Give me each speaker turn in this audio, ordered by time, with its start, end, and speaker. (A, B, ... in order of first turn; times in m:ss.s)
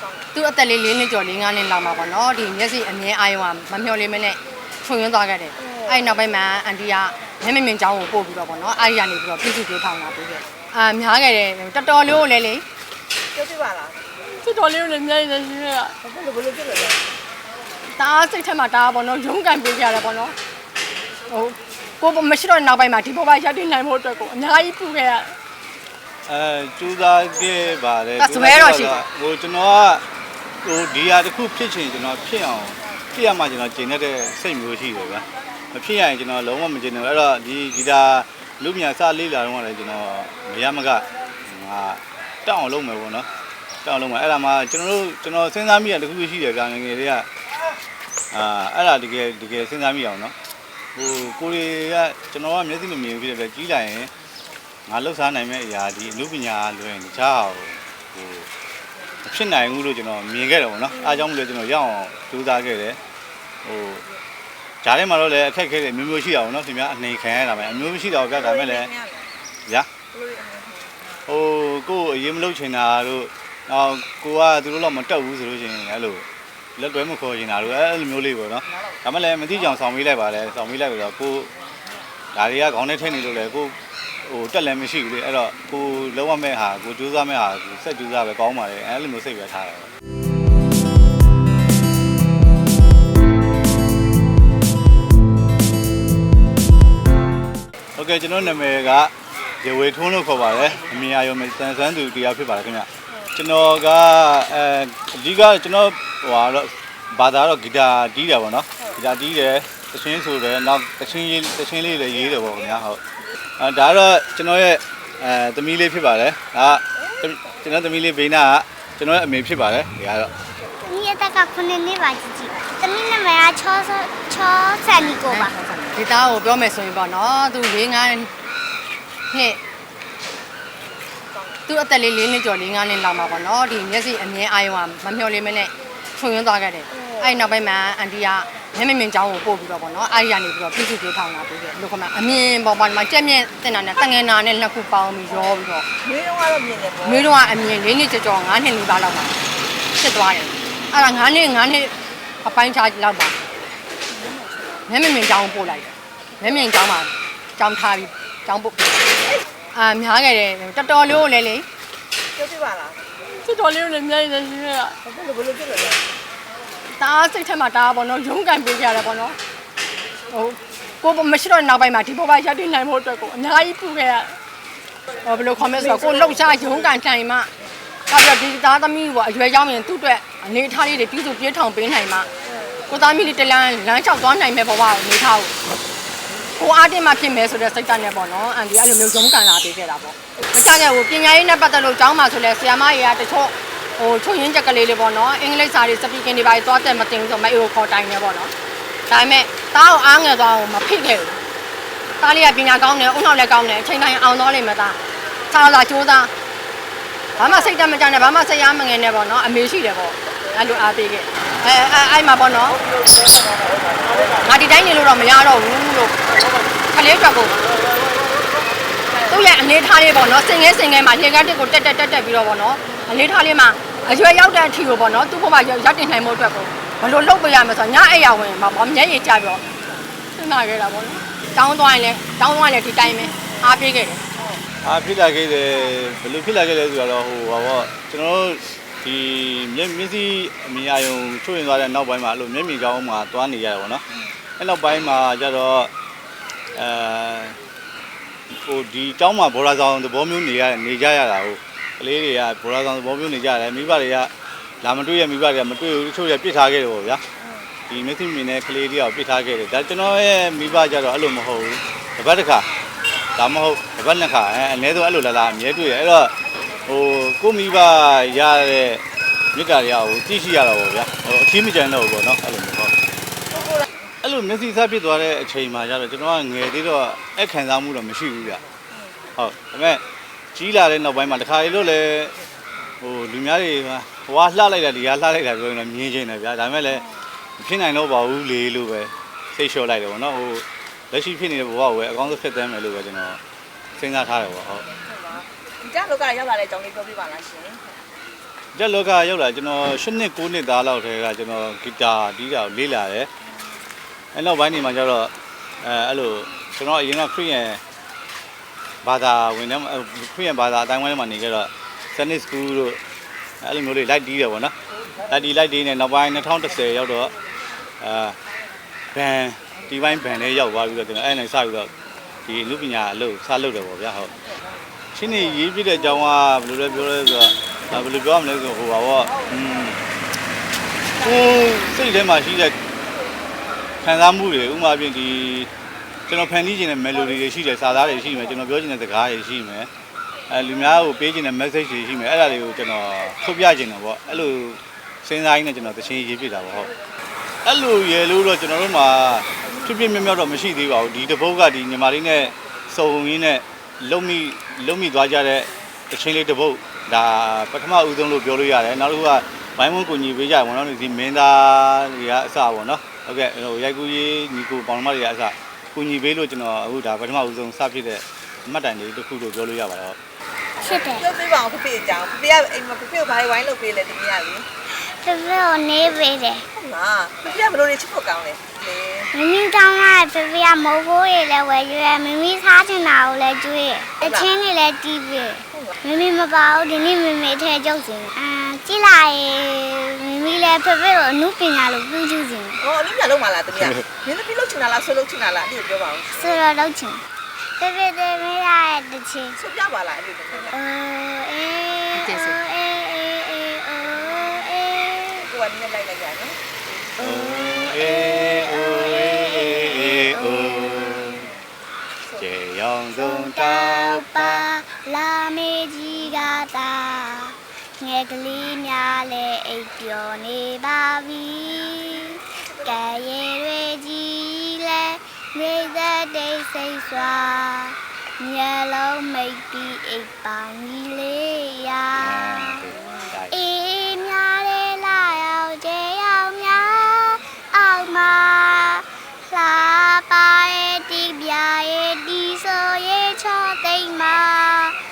0:00.3-0:12.6 A
0:05.6-0:06.0 B
0:13.3-0:14.4 B
0:14.4-0:16.0 A
0:16.0-0:17.0 B
0:18.0-0:20.4 A
0:21.3-0:25.3 A
0:26.2-0:30.0 C
0:28.2-0:29.0 A
0:30.6-0:43.3 C
0:43.8-0:47.3 C
0:48.3-0:50.4 C
0:51.0-0:54.1 C
0:54.9-0:58.5 C
0:59.2-1:03.0 C
1:03.6-1:04.0 C
1:04.8-1:08.9 C
1:08.3-1:09.3 B
1:10.1-1:10.9 B
1:11.3-1:16.2 C
1:16.8-1:21.5 C
1:22.3-1:29.9 C
1:38.0-1:53.0 C
1:53.6-2:00.3 C
2:00.8-2:05.6 D
2:05.3-2:08.3 A
2:09.3-2:09.6 A
2:11.3-2:11.6 B
2:11.7-2:25.8 A
2:16.9-2:17.3 B
2:26.0-2:27.3 B
2:27.0-2:29.4 A
2:30.0-2:31.9 A
2:32.4-2:33.4 A
2:34.1-2:34.8 B
2:34.9-2:39.2 A
2:39.7-2:41.7 A
2:42.4-2:43.4 B
2:43.4-2:45.0 A
2:45.0-2:46.0 B
2:47.0-2:49.4 A
2:50.3-2:54.4 A
2:55.2-2:57.5 A
2:58.1-3:02.3 A
3:02.5-3:02.8 B
3:02.9-3:05.5 A
3:06.6-3:18.5 A
3:19.1-3:21.4 A
3:22.2-3:25.0 A
3:25.5-3:26.3 A
3:27.4-3:32.8 A
3:34.4-3:36.2 A
3:36.9-3:37.6 A
3:39.3-3:49.6 A
3:50.4-3:54.2 A
3:53.5-3:53.7 B
3:54.4-3:54.6 B
3:54.8-4:04.0 C
4:04.6-4:05.9 C
4:06.7-4:07.6 C
4:08.5-4:14.3 C
4:14.8-4:17.2 C
4:17.9-4:22.7 C
4:23.4-4:26.3 C
4:26.9-4:32.9 C
4:34.2-4:38.6 C
4:39.4-4:40.0 C
4:40.6-4:42.4 C
4:43.0-4:47.0 C
4:47.6-4:53.4 C
4:54.0-4:54.9 C
4:54.9-4:58.0 B
4:58.7-5:03.3 C
5:04.3-5:07.8 C
5:09.0-5:13.0 C
5:13.6-5:14.7 C
5:15.3-5:17.3 C
5:18.0-5:18.4 C
5:19.1-5:21.9 C
5:22.5-5:24.3 C
5:25.2-5:30.0 C
5:31.2-5:32.8 C
5:34.0-5:35.7 C
5:36.3-5:39.9 C
5:40.5-5:46.9 C
5:47.6-6:10.2 C
6:10.8-6:11.3 D
6:10.9-6:14.6 B
6:14.9-6:16.6 D
6:16.7-6:19.3 B
6:19.3-6:32.8 D
6:24.2-6:24.5 B
6:32.8-6:36.6 B
6:36.3-6:37.2 D
6:37.8-6:39.6 D
6:39.6-6:40.8 B
6:40.7-6:45.5 D
6:42.1-6:42.6 A
6:45.4-6:46.6 B
6:47.2-6:51.4 D
6:47.2-6:51.5 C
6:52.4-6:54.6 C
6:53.1-7:12.9 D
7:02.6-7:03.2 B
7:12.2-7:13.6 C
7:13.5-7:25.0 D